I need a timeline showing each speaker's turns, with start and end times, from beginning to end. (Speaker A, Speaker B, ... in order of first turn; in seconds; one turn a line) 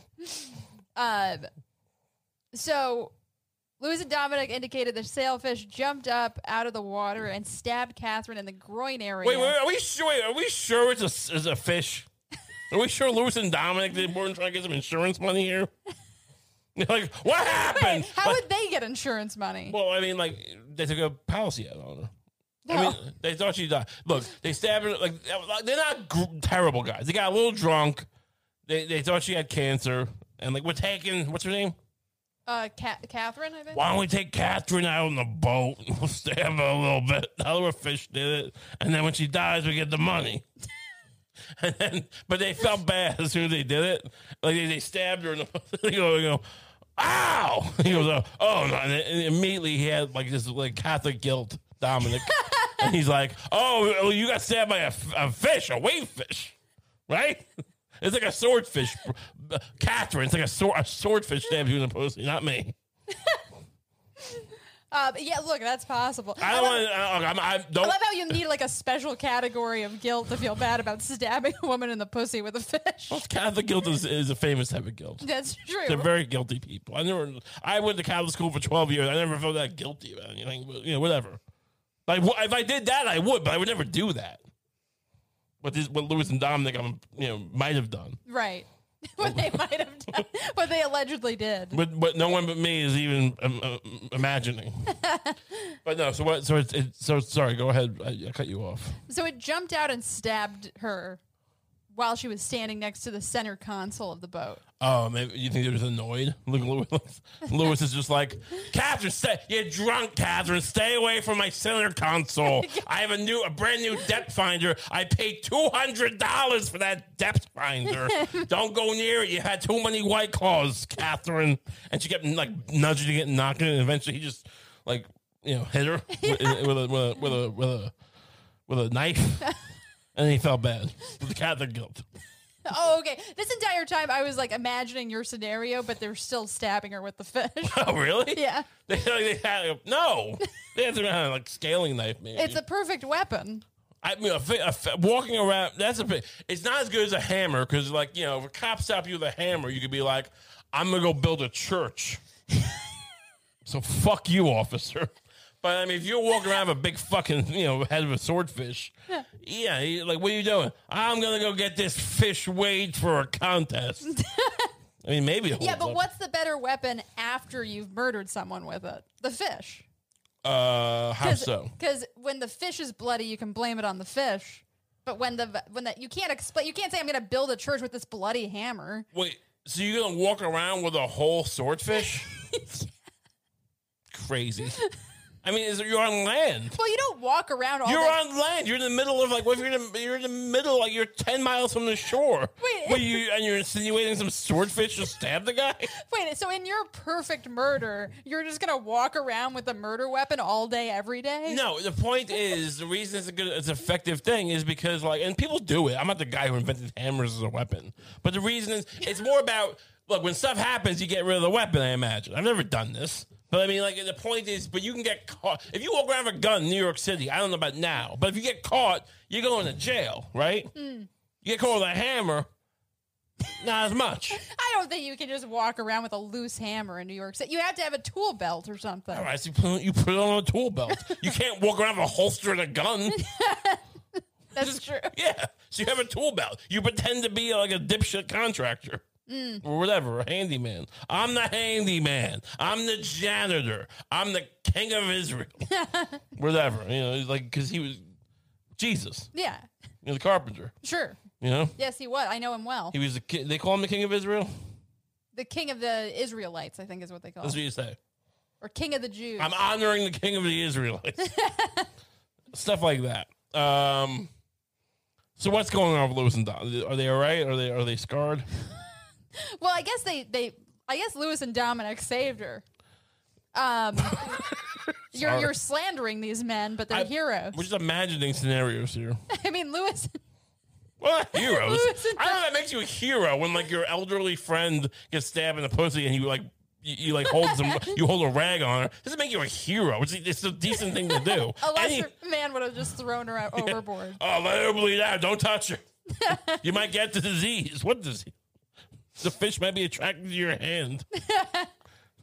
Speaker A: 0.2-1.5
Speaker A: 2.5-3.1
Speaker A: 3.8-9.6
Speaker B: 9.2-12.1
Speaker B: 12.7-15.7
Speaker B: 16.8-18.4
Speaker A: 17.4-19.8
Speaker B: 19.7-22.1
Speaker A: 22.7-23.0
Speaker B: 22.7-28.1
Speaker B: 28.7-31.8
Speaker A: 32.5-33.8
Speaker B: 33.7-40.5
Speaker B: 41.6-46.4
Speaker B: 47.0-56.5
Speaker A: 52.2-52.9
Speaker B: 57.1-57.5
Speaker B: 58.0-62.7
Speaker A: 63.1-63.4
Speaker A: 64.2-66.9
Speaker B: 66.4-68.0
Speaker A: 67.8-73.2
Speaker B: 73.1-75.2
Speaker A: 75.2-76.1
Speaker B: 75.9-81.4
Speaker B: 82.1-84.4
Speaker B: 85.6-88.2
Speaker A: 88.3-91.8
Speaker B: 89.2-89.6
Speaker B: 91.7-94.9
Speaker A: 94.9-95.8
Speaker B: 95.8-99.0
Speaker A: 99.1-101.2
Speaker A: 101.9-104.6
Speaker B: 104.8-127.9
Speaker A: 112.5-112.8
Speaker A: 118.0-118.5
Speaker A: 126.1-126.7
Speaker B: 128.7-129.6
Speaker B: 130.2-132.1
Speaker A: 132.7-137.8
Speaker B: 137.6-142.6
Speaker A: 138.3-138.7
Speaker A: 142.3-143.6
Speaker B: 144.0-152.2
Speaker B: 153.6-155.1
Speaker B: 155.6-164.1
Speaker A: 164.1-164.7
Speaker B: 165.0-166.0
Speaker A: 165.6-169.9
Speaker B: 170.4-171.7
Speaker A: 171.2-179.1
Speaker B: 179.1-182.3
Speaker A: 182.3-182.9
Speaker B: 184.1-184.8
Speaker B: 185.4-186.8
Speaker A: 186.7-188.2
Speaker B: 187.9-195.9
Speaker A: 192.6-193.2
Speaker A: 196.0-201.6
Speaker B: 201.5-220.7
Speaker A: 220.8-221.1
Speaker B: 221.4-222.5
Speaker B: 223.6-224.4
Speaker A: 224.3-229.3
Speaker B: 229.1-233.2
Speaker A: 230.9-231.2
Speaker A: 233.1-235.2
Speaker B: 234.6-239.1
Speaker A: 239.3-239.6
Speaker B: 239.6-245.6
Speaker A: 245.7-246.2
Speaker B: 246.3-248.1
Speaker B: 248.8-249.3
Speaker A: 249.3-249.7
Speaker B: 250.0-250.7
Speaker A: 250.8-251.2
Speaker B: 251.4-251.8
Speaker A: 251.8-253.0
Speaker B: 252.9-254.5
Speaker A: 255.3-257.6
Speaker B: 257.4-258.0
Speaker A: 258.6-259.5
Speaker B: 259.4-261.3
Speaker A: 261.2-261.9
Speaker B: 262.5-264.3
Speaker B: 265.4-268.5
Speaker A: 269.4-272.6
Speaker A: 273.5-274.5
Speaker B: 274.1-275.5
Speaker A: 275.1-277.6
Speaker B: 276.9-279.2
Speaker A: 279.3-280.2
Speaker B: 281.0-292.1
Speaker A: 281.4-282.4
Speaker A: 287.3-288.0
Speaker A: 290.8-294.2
Speaker B: 293.6-295.8
Speaker A: 296.1-296.6
Speaker B: 296.3-298.4
Speaker B: 299.2-301.1
Speaker A: 301.1-301.7